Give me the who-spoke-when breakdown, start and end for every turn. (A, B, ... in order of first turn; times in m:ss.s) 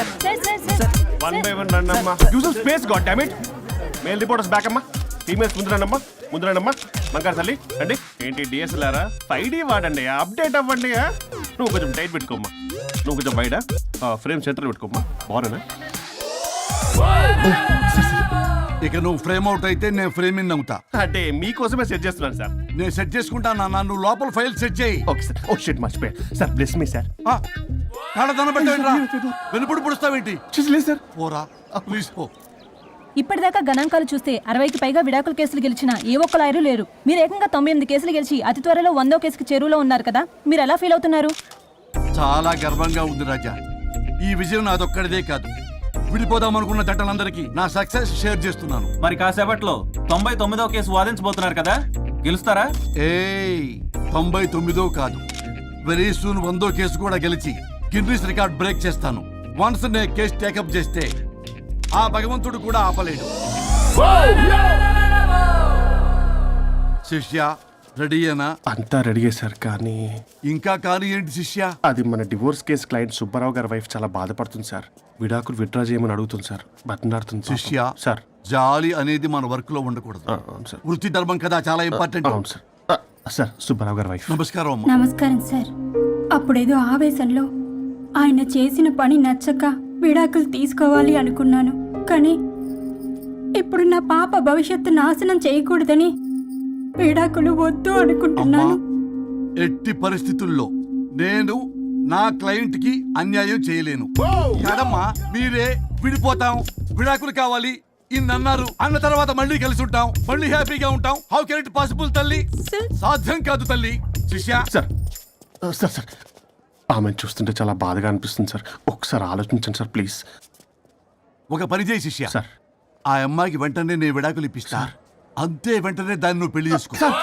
0:00.2-0:01.5 A
0:01.2-0:03.3 B
0:04.0-0:11.0 B
0:11.6-0:12.5 B
0:13.0-0:15.6 B
0:17.4-0:18.2 B
0:18.8-0:20.8 C
0:21.0-0:22.5 B
0:22.8-0:25.0 C
0:25.1-0:27.1 B
0:28.1-0:30.4 C
0:28.6-0:29.4 B
0:30.5-0:31.0 B
0:31.2-0:32.3 C
0:31.7-0:32.0 B
0:33.2-0:41.3 A
0:42.1-0:43.6 C
0:44.2-0:45.5 C
0:46.1-0:48.9 C
0:49.0-0:52.7 D
0:53.0-0:55.2 C
0:55.8-1:01.1 C
1:02.0-1:03.3 C
1:07.0-1:08.5 C
1:08.7-1:10.0 B
1:10.5-1:11.7 C
1:11.8-1:18.2 B
1:17.5-1:17.9 C
1:18.5-1:20.3 C
1:20.3-1:20.8 B
1:20.8-1:22.4 C
1:21.9-1:24.4 B
1:24.3-1:24.9 C
1:24.9-1:25.7 E
1:26.4-1:27.5 E
1:28.2-1:32.4 E
1:33.6-1:36.1 E
1:37.0-1:38.8 E
1:38.4-1:38.8 C
1:39.6-1:41.6 C
1:42.1-1:52.4 C
1:53.0-1:54.6 C
1:55.6-1:56.1 B
1:56.9-2:00.2 B
2:01.5-2:02.3 C
2:03.1-2:07.0 C